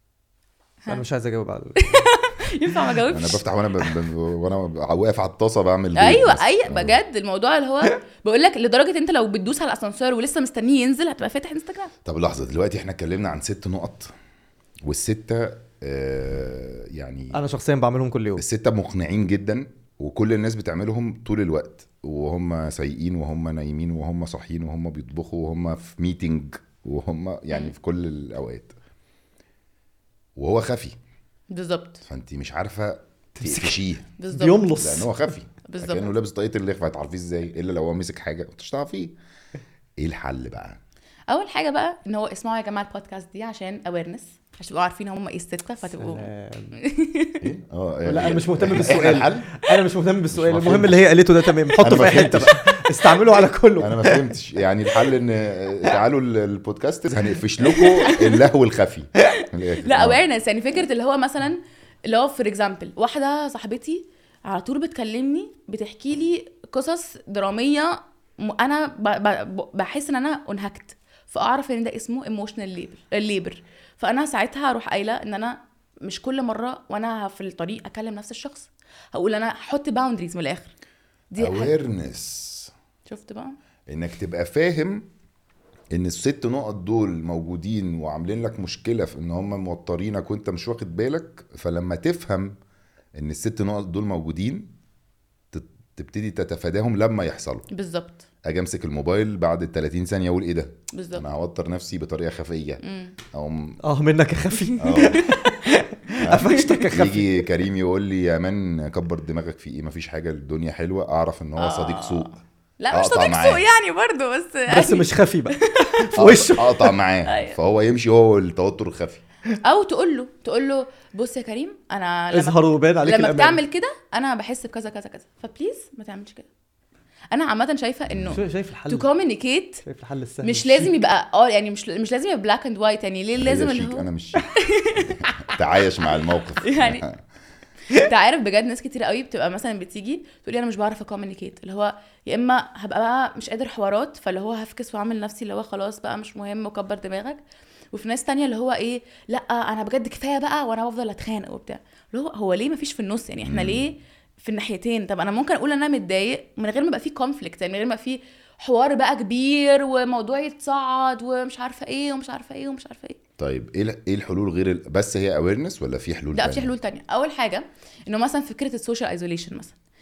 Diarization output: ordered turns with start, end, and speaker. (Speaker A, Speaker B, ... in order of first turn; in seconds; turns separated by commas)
Speaker A: 0.9-2.1, Speaker B: 1.8-3.4, Speaker C: 3.1-7.0, Speaker B: 5.9-11.9, Speaker C: 12.0-14.1, Speaker C: 14.8-17.4, Speaker A: 17.3-18.4, Speaker C: 18.4-28.7, Speaker C: 30.4-30.9, Speaker B: 31.5-32.0, Speaker C: 32.0-39.1, Speaker A: 33.4-33.8, Speaker B: 34.2-34.7, Speaker A: 34.3-35.2, Speaker B: 35.6-36.1, Speaker C: 40.0-40.8, Speaker B: 41.3-47.4, Speaker A: 45.9-46.8, Speaker C: 47.4-49.5, Speaker A: 48.0-54.4, Speaker C: 50.3-51.1, Speaker C: 51.8-53.0, Speaker C: 53.8-60.2, Speaker B: 57.7-58.2, Speaker B: 59.3-80.7, Speaker B: 81.3-81.7, Speaker C: 81.4-82.7, Speaker B: 83.1-83.5, Speaker C: 83.9-85.0, Speaker C: 85.9-92.5, Speaker C: 93.1-94.7, Speaker C: 95.5-97.7, Speaker B: 97.7-98.2, Speaker C: 98.4-103.8, Speaker B: 100.9-101.2, Speaker B: 102.8-103.2, Speaker A: 103.8-107.3, Speaker C: 104.8-105.2, Speaker C: 106.2-112.3, Speaker B: 106.5-106.8, Speaker B: 111.6-116.1, Speaker C: 112.9-113.6, Speaker A: 114.7-116.9, Speaker C: 116.2-119.2, Speaker B: 117.2-117.5, Speaker B: 119.6-126.5, Speaker A: 122.3-123.6, Speaker B: 127.3-129.8, Speaker C: 128.1-128.4, Speaker A: 128.3-129.1, Speaker A: 129.8-130.9, Speaker B: 130.4-135.5, Speaker C: 133.4-137.2, Speaker B: 136.6-137.1, Speaker B: 137.9-147.4, Speaker B: 147.9-163.2, Speaker C: 153.4-153.8, Speaker C: 163.4-166.7, Speaker B: 166.3-169.7